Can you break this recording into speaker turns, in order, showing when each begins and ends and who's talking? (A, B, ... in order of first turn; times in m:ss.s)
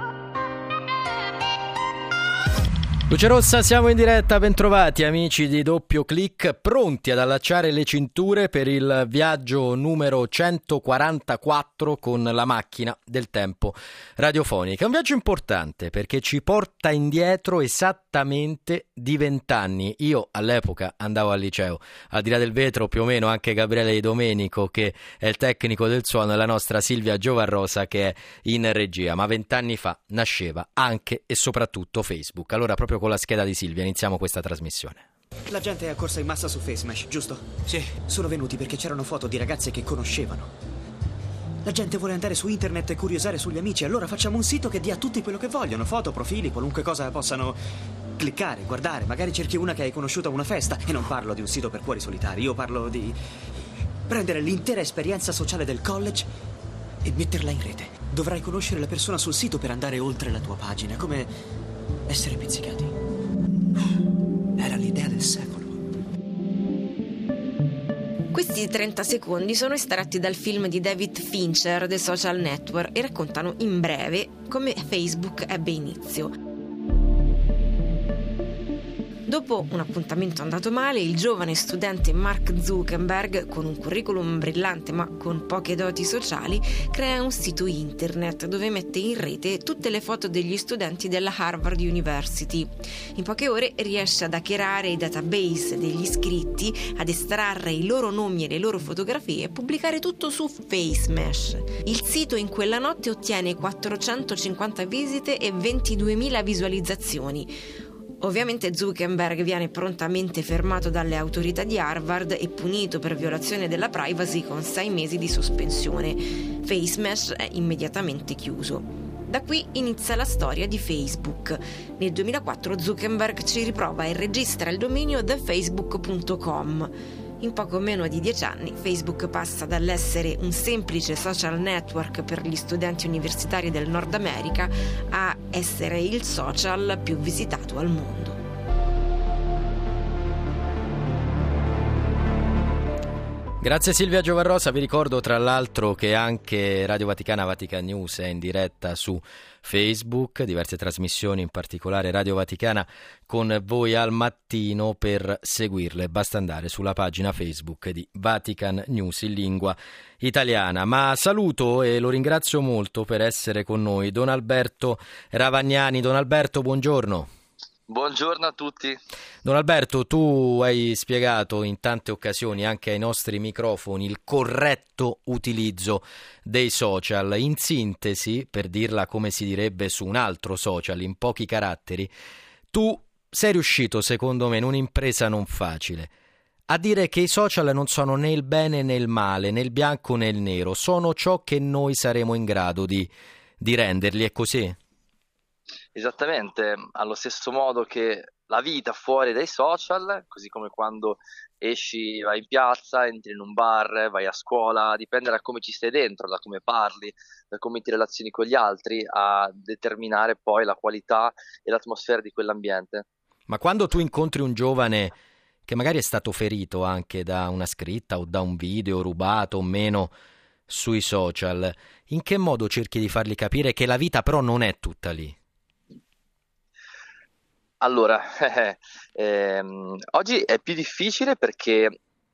0:03.1-0:35.0 A
0:35.5-0:40.5 B
0:41.6-0:47.6 B
0:48.2-0:53.2 B
0:54.1-0:56.3 B
0:57.0-1:01.3 B
1:02.1-1:02.9 B
1:04.6-1:05.8 B
1:08.3-1:16.3 C
1:19.3-1:47.5 C
1:48.2-2:18.4 C
2:23.6-2:47.3 A
2:47.9-2:49.0 D
2:49.4-3:02.1 A
3:02.7-3:06.1 A
3:06.7-3:14.8 A
3:15.9-3:33.0 D
3:33.5-3:40.1 A
3:40.7-3:45.4 A
3:47.8-3:52.0 D